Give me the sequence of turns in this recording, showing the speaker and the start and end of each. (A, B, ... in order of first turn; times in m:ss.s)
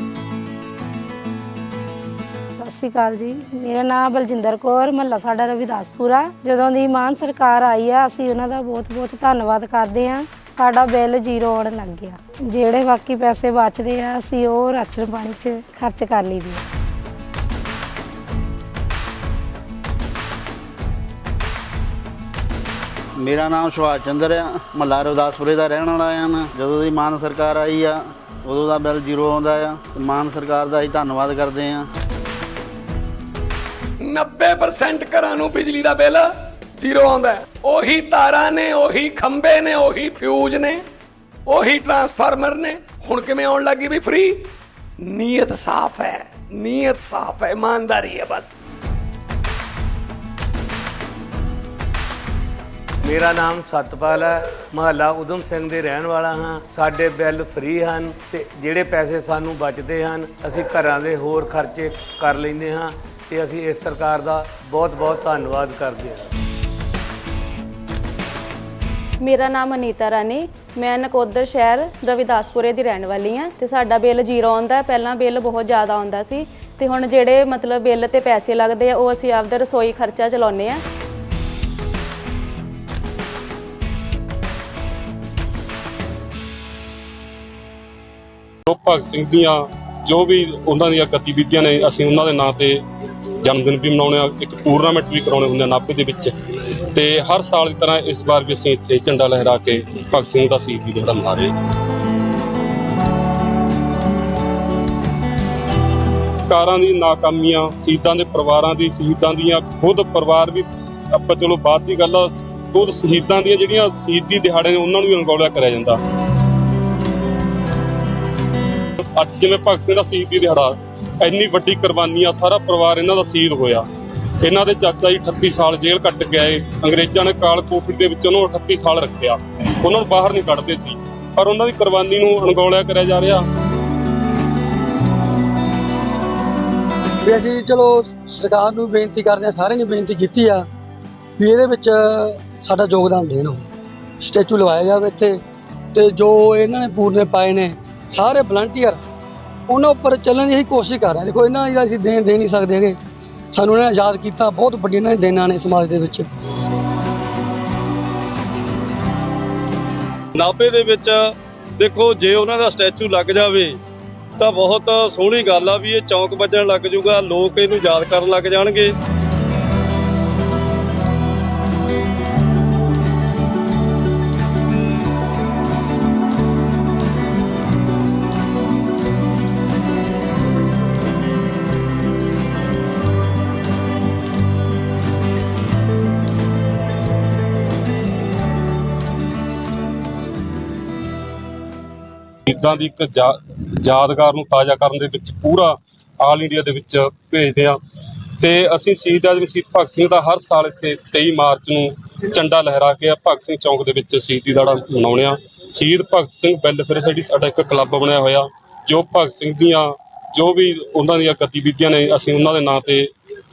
0:02.6-0:16.6 A
0:23.2-0:31.9 B
0:34.0-0:40.8 C
0:41.5-0:44.4 C
0:45.0-0:48.5 C
0:53.0-1:06.3 D
1:09.2-1:20.8 E
1:28.7-1:32.8 F
1:33.4-1:41.5 F
1:46.5-1:56.0 F
1:59.1-2:03.8 F
2:04.4-2:13.4 F
2:17.2-2:20.6 G
2:21.4-2:23.6 G
2:24.2-2:25.4 G
2:25.9-2:29.0 G
2:29.7-2:33.0 G
2:33.5-2:36.3 G
2:40.4-2:41.2 H
2:41.8-2:43.8 H
2:44.4-2:48.9 H
3:12.5-3:17.8 F
3:18.4-3:33.1 F